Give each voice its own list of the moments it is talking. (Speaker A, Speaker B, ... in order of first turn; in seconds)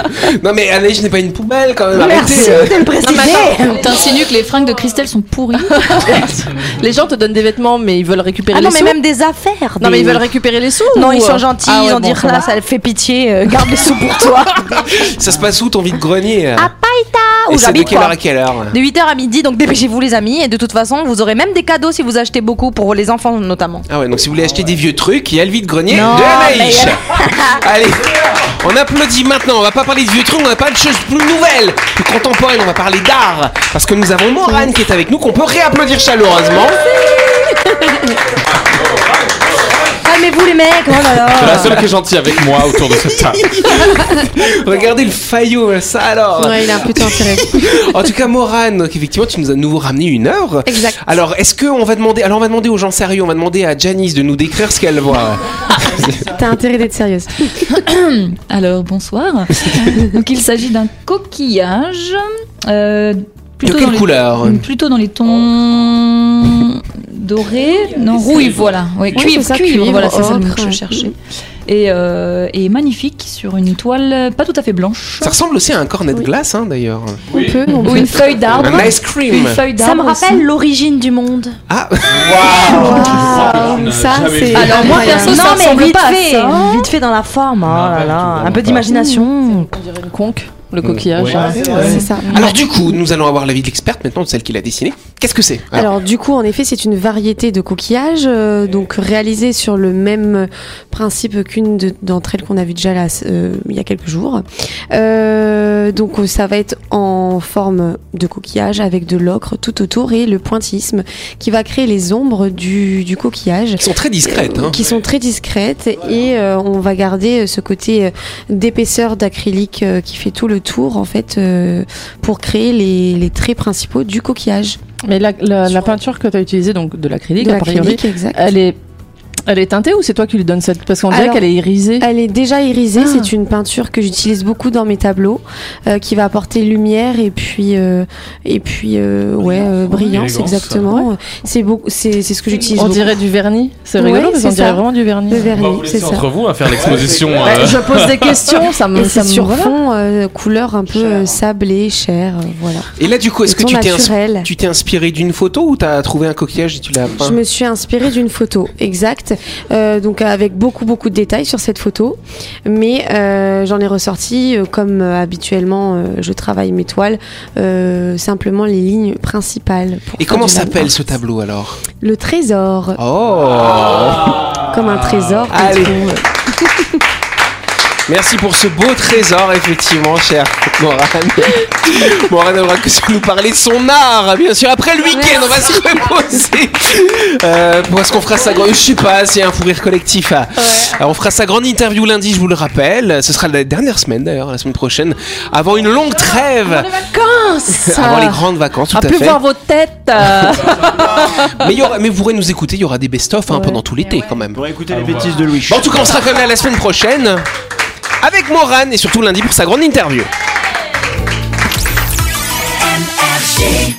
Speaker A: 0.1-2.9, 15.0-16.7, 17.5-18.8, 23.9-27.0, 27.6-36.8, 41.5-41.8, 43.1-56.2, 63.6-64.6, 75.2-77.2, 78.6-79.6, 81.7-82.8, 92.3-95.9, 113.8-114.8, 153.0-157.4, 170.2-171.8, 173.0-174.5, 175.5-176.0, 178.1-196.9, 197.7-199.4, 200.4-204.6, 205.7-207.4, 208.2-210.3
Speaker B: 1.9-3.9, 8.5-10.2, 11.0-14.7, 17.0-18.0, 20.4-23.8, 25.9-26.9, 40.1-41.9, 69.2-70.8, 79.8-81.6, 84.5-89.7
Speaker C: 2.1-6.1, 57.7-70.8, 71.7-75.3, 77.8-80.5, 84.8-86.9
Speaker D: 3.1-3.5, 5.7-9.0, 9.8-12.5, 88.9-92.4, 125.0-128.8, 129.5-132.1, 133.0-133.3, 142.7-145.5, 147.4-149.7, 196.9-201.6, 203.5-203.8
Speaker E: 41.3-43.6, 68.3-69.2, 77.3-77.6, 82.1-85.1, 87.7-88.9, 90.9-91.5, 139.8-141.0, 145.5-148.6, 204.9-205.3
Speaker F: 46.4-47.9, 50.7-51.0, 56.3-57.7, 69.2-71.1, 77.3-78.5, 82.6-85.6, 91.6-92.5, 95.7-124.8, 127.4-128.6, 131.1-143.2, 144.0-146.4, 148.9-152.9, 153.5-154.5, 157.2-170.9, 172.0-173.0, 174.6-176.3
Speaker G: 55.9-56.4, 82.5-83.7, 91.2-92.1, 146.7-147.5, 150.9-151.4, 204.5-206.1